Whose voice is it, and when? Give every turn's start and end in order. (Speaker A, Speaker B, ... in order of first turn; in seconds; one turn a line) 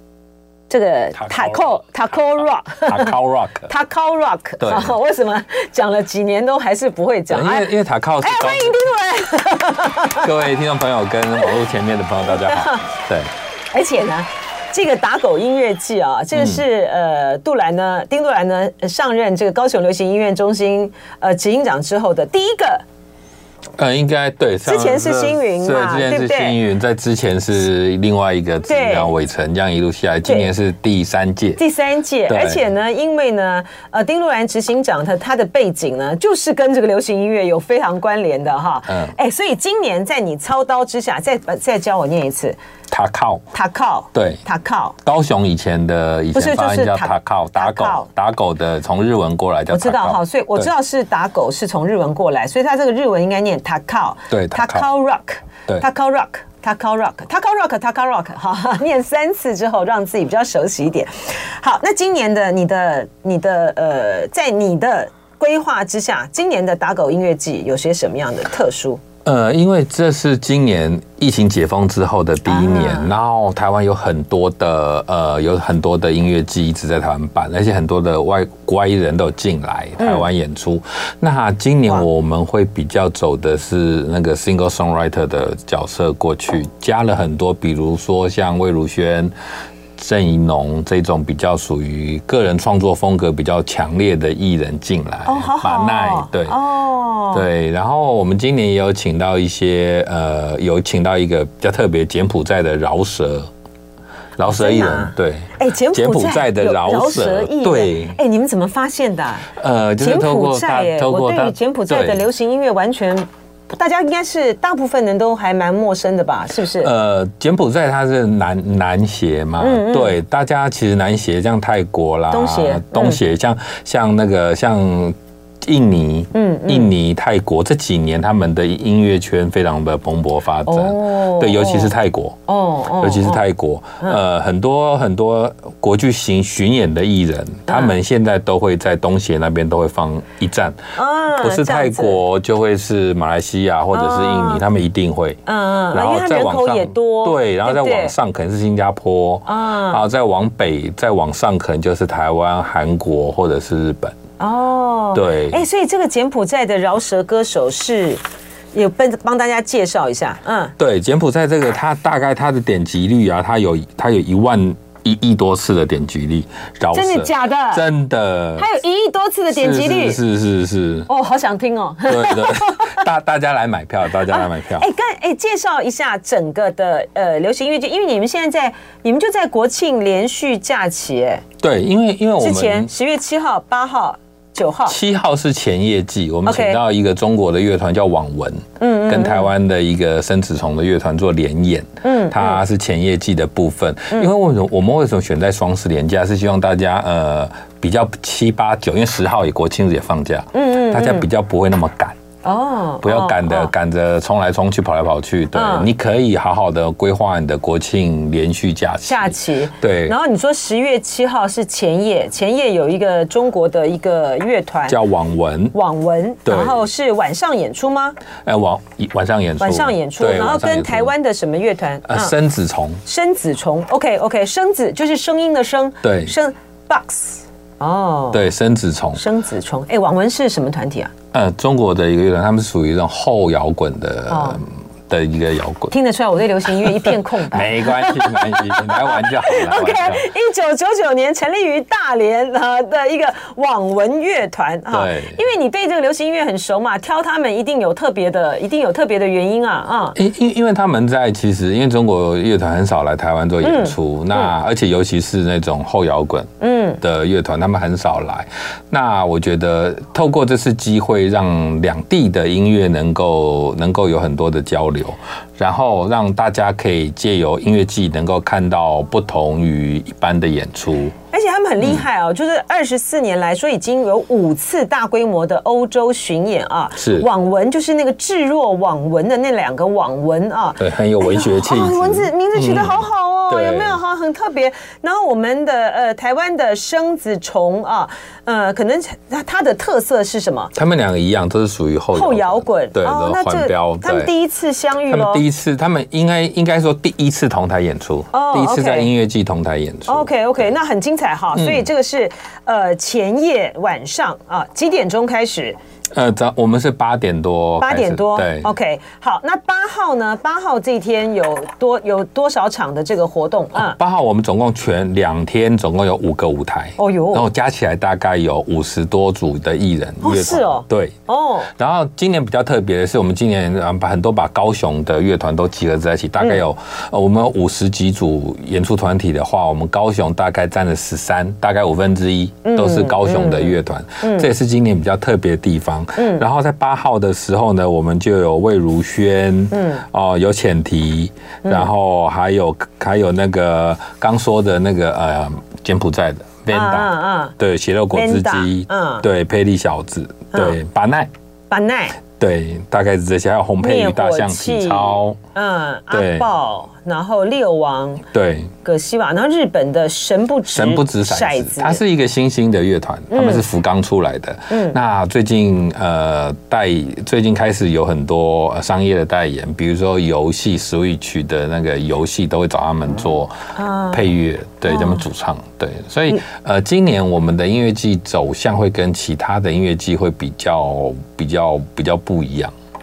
Speaker A: 0.7-3.1
Speaker B: 1.1-3.7
Speaker A: 3.7-10.3
Speaker B: 4.6-4.9
Speaker B: 7.3-8.8
Speaker B: 10.2-13.3
Speaker A: 12.2-12.9
Speaker A: 13.7-22.8
Speaker B: 16.3-16.6
Speaker B: 23.8-31.6
Speaker A: 24.6-26.6
Speaker A: 28.6-29.1
Speaker A: 31.6-42.6
Speaker B: 32.3-32.6
Speaker B: 38.9-39.1
Speaker B: 42.9-43.4
Speaker A: 43.5-45.0
Speaker B: 44.1-44.4
Speaker B: 45.0-50.7
Speaker A: 46.3-48.1
Speaker A: 49.7-69.0
Speaker B: 54.3-54.9
Speaker B: 69.2-89.3
Speaker A: 72.5-73.1
Speaker A: 80.0-80.2
Speaker B: 90.0-96.5
Speaker A: 95.2-97.4
Speaker B: 97.3-103.5
Speaker B: 104.4-108.2
Speaker A: 104.4-116.9
Speaker B: 109.5-112.2
Speaker B: 116.8-132.4
Speaker A: 119.6-120.2
Speaker A: 122.3-123.2
Speaker A: 126.3-126.9
Speaker A: 130.7-131.9
Speaker A: 132.5-133.4
Speaker B: 133.0-140.8
Speaker A: 137.7-137.9
Speaker A: 140.9-142.2
Speaker B: 141.3-145.4
Speaker A: 143.9-144.6
Speaker A: 145.4-148.1
Speaker B: 145.9-154.2
Speaker A: 149.4-150.0
Speaker A: 154.4-158.2
Speaker B: 155.1-155.6
Speaker A: 158.7-160.7
Speaker B: 160.8-168.7
Speaker A: 166.9-167.8
Speaker A: 168.6-170.2
Speaker B: 169.5-171.1
Speaker A: 171.1-173.0
Speaker B: 172.1-174.9
Speaker A: 174.3-181.4
Speaker B: 181.6-182.9
Speaker A: 182.4-185.0
Speaker B: 184.9-202.1
Speaker A: 186.4-186.8
Speaker A: 188.8-189.5
Speaker A: 192.0-192.6
Speaker A: 200.5-201.2
Speaker A: 202.4-203.7
Speaker B: 203.0-210.2
Speaker A: 205.5-205.9
Speaker A: 209.1-215.0
Speaker B: 214.9-215.7
Speaker A: 215.7-218.2
Speaker B: 216.4-216.8
Speaker B: 218.4-221.1
Speaker A: 219.6-222.3
Speaker B: 222.0-223.0
Speaker A: 223.0-228.4
Speaker B: 226.0-226.3
Speaker B: 228.3-229.2
Speaker A: 229.2-231.1
Speaker B: 231.3-235.9
Speaker A: 234.3-234.6
Speaker A: 235.9-250.2
Speaker B: 236.8-240.3
Speaker B: 244.9-245.4
Speaker B: 250.1-271.1
Speaker A: 253.6-254.5
Speaker A: 256.6-257.0
Speaker A: 271.3-290.7
Speaker B: 277.0-277.3
Speaker B: 280.8-284.0
Speaker B: 290.7-294.3
Speaker A: 292.1-295.4
Speaker B: 295.1-300.3
Speaker A: 298.3-299.1
Speaker A: 300.1-305.8
Speaker B: 301.5-301.9
Speaker B: 306.1-308.7
Speaker A: 307.8-314.0
Speaker B: 313.7-321.1
Speaker A: 317.0-317.5
Speaker A: 320.2-321.7
Speaker B: 321.7-351.3
Speaker A: 332.6-334.5
Speaker A: 336.2-336.4
Speaker A: 339.7-340.0
Speaker A: 346.7-347.6
Speaker A: 348.1-349.2
Speaker A: 350.5-350.8
Speaker A: 351.7-352.2
Speaker B: 352.4-355.4
Speaker A: 353.8-358.2
Speaker B: 356.1-356.5
Speaker B: 358.3-358.7
Speaker A: 358.8-362.0
Speaker B: 360.7-373.5
Speaker A: 363.3-363.6
Speaker A: 364.7-365.0
Speaker A: 373.7-374.2
Speaker B: 374.1-382.7
Speaker A: 374.9-375.2